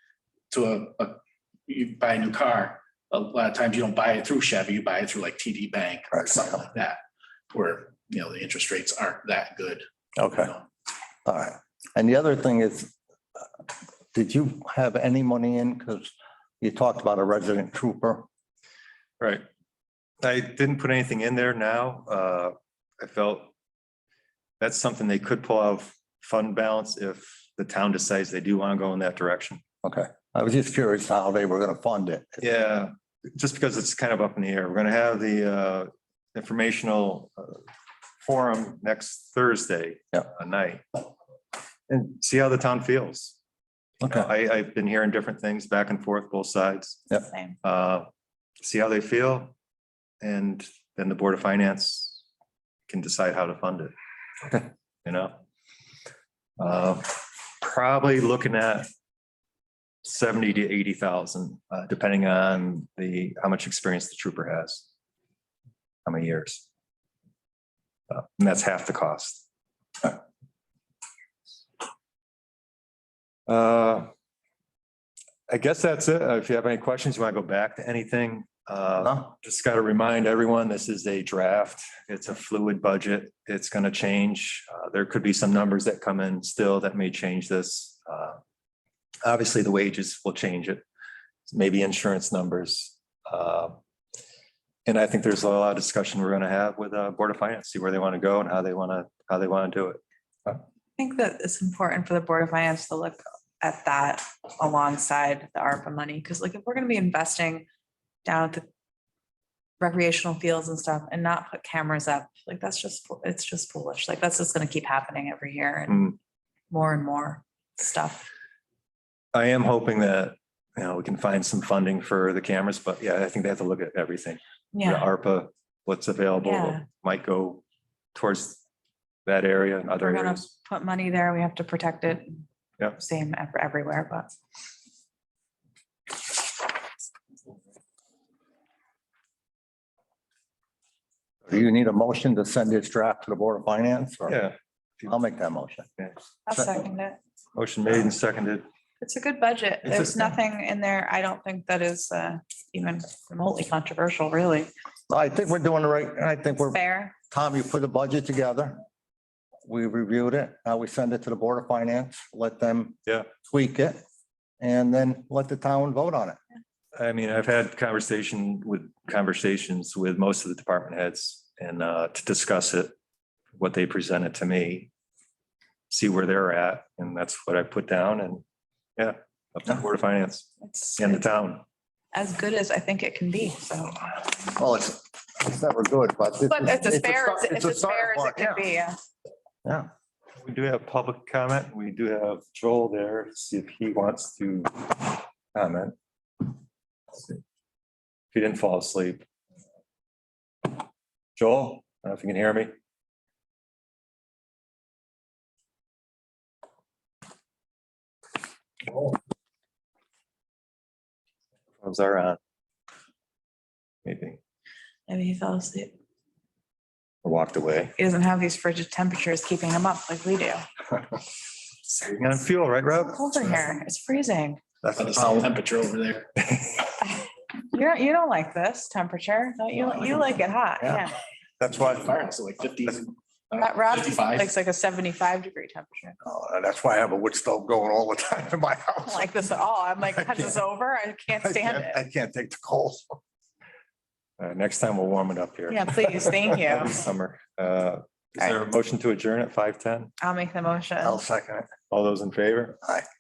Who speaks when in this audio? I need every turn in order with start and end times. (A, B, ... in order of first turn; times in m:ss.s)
0:00.5-0:07.0 A
0:07.5-0:09.8 A
0:10.2-0:10.5 B
0:11.2-0:12.9 B
0:14.1-0:18.2 B
0:19.2-0:19.4 C
0:20.2-0:23.5 C
0:24.6-0:29.6 C
0:29.8-0:32.4 B
0:32.4-0:37.6 C
0:38.2-0:41.0 C
0:41.9-0:43.4 C
0:44.0-0:44.3 B
0:44.0-0:47.0 C
0:47.2-0:47.6 D
0:47.6-0:48.1 C
0:48.6-0:49.5 C
0:50.2-0:52.2 C
0:52.9-0:53.9 C
0:54.5-0:55.4 C
0:56.6-0:58.9 C
1:00.0-1:04.8 C
1:06.0-1:06.6 C
1:08.1-1:09.4 C
1:13.5-1:14.1 C
1:15.5-1:28.4 C
1:29.2-1:30.8 C
1:31.5-1:33.8 C
1:34.8-1:40.6 C
1:41.0-1:47.7 D
1:48.2-1:48.6 D
1:49.8-1:56.2 D
1:56.7-1:58.3 D
1:59.3-2:07.6 C
2:04.7-2:05.1 D
2:06.4-2:06.8 D
2:08.1-2:08.6 C
2:09.2-2:10.5 C
2:09.9-2:14.3 D
2:21.4-2:24.4 B
2:24.2-2:25.1 C
2:25.1-2:25.9 B
2:26.4-2:27.2 D
2:26.5-2:26.8 B
2:27.5-2:28.6 C
2:29.0-2:34.7 D
2:29.8-2:30.2 C
2:35.1-2:36.8 B
2:36.6-2:37.1 D
2:37.3-2:38.8 B
2:39.6-2:44.0 B
2:44.6-2:46.4 B
2:46.9-2:52.9 C
2:53.6-2:54.9 C
2:55.9-2:58.4 C
2:59.0-3:01.6 C
3:00.6-3:01.4 D
3:02.1-3:04.1 D
3:04.6-3:08.6 B
3:06.5-3:09.0 D
3:10.4-3:16.5 C
3:17.1-3:17.4 C
3:18.3-3:19.2 C
3:21.4-3:22.7 C
3:31.8-3:32.4 C
3:34.0-3:34.4 C
3:35.1-3:35.9 D
3:37.2-3:37.9 C
3:38.0-3:40.6 D
3:42.0-3:43.6 C
3:42.9-3:44.6 D
3:44.8-3:45.5 C
3:45.0-3:46.3 A
3:46.5-3:46.9 C
3:47.7-3:51.1 D
3:51.6-3:52.1 C
3:51.6-3:54.5 A
3:53.5-3:56.2 D
3:56.2-3:59.3 B
3:59.0-4:02.0 D
4:00.1-4:00.6 B
4:01.4-4:03.2 B
4:04.4-4:10.1 C
4:05.7-4:07.0 D
4:10.2-4:11.2 D
4:11.0-4:11.7 B
4:11.9-4:12.8 C